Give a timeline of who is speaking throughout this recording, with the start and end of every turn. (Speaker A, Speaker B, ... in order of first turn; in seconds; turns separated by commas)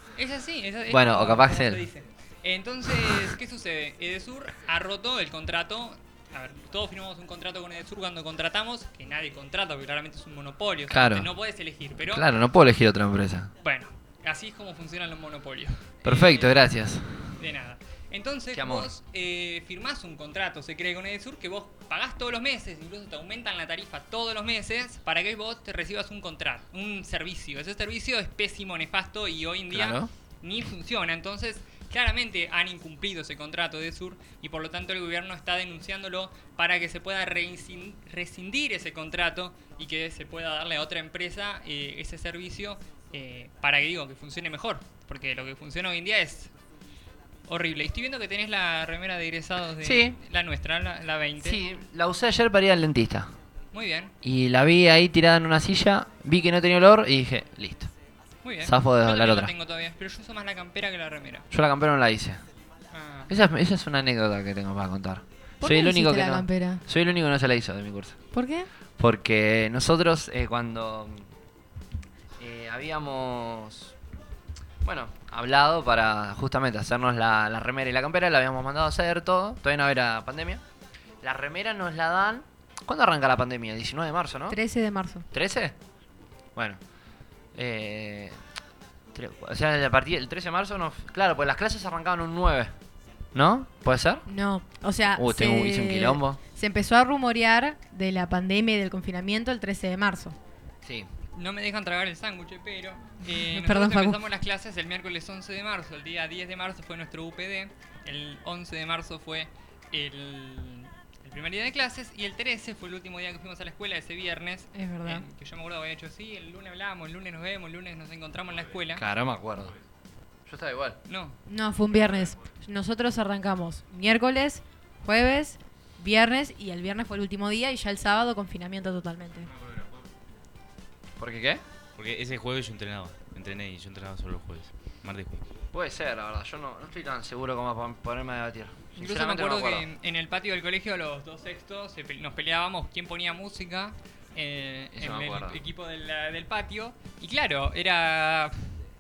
Speaker A: 0.2-12.2, Speaker B: 0.9-1.9, Speaker B: 10.9-11.3, Speaker B: 12.0-13.5, Speaker A: 13.6-16.6, Speaker B: 16.0-17.3, Speaker A: 17.4-46.5, Speaker B: 18.5-18.9, Speaker B: 29.7-30.1, Speaker A: 47.5-51.6, Speaker B: 49.8-50.2, Speaker B: 51.4-53.3, Speaker A: 53.7-54.1, Speaker B: 54.2-57.9, Speaker A: 58.4-61.5, Speaker B: 58.6-59.5, Speaker B: 61.5-62.4, Speaker A: 62.9-63.3, Speaker B: 63.3-68.2, Speaker C: 65.6-66.8, Speaker C: 68.3-68.7, Speaker B: 69.0-71.3, Speaker B: 72.4-73.9, Speaker B: 74.8-80.6, Speaker B: 81.2-84.6, Speaker C: 84.5-85.3, Speaker B: 85.3-85.8, Speaker B: 87.5-88.4, Speaker B: 89.1-92.7, Speaker B: 93.3-94.2, Speaker C: 94.3-100.4, Speaker B: 95.2-96.4, Speaker B: 100.8-101.1, Speaker A: 101.4-119.0, Speaker C: 103.3-104.2, Speaker C: 114.7-115.2, Speaker B: 119.0-119.8, Speaker B: 120.5-121.0, Speaker A: 121.1-121.4, Speaker C: 121.5-129.5, Speaker B: 131.2-131.6, Speaker D: 132.0-135.4, Speaker B: 135.7-139.8, Speaker A: 139.0-148.6, Speaker B: 144.9-145.6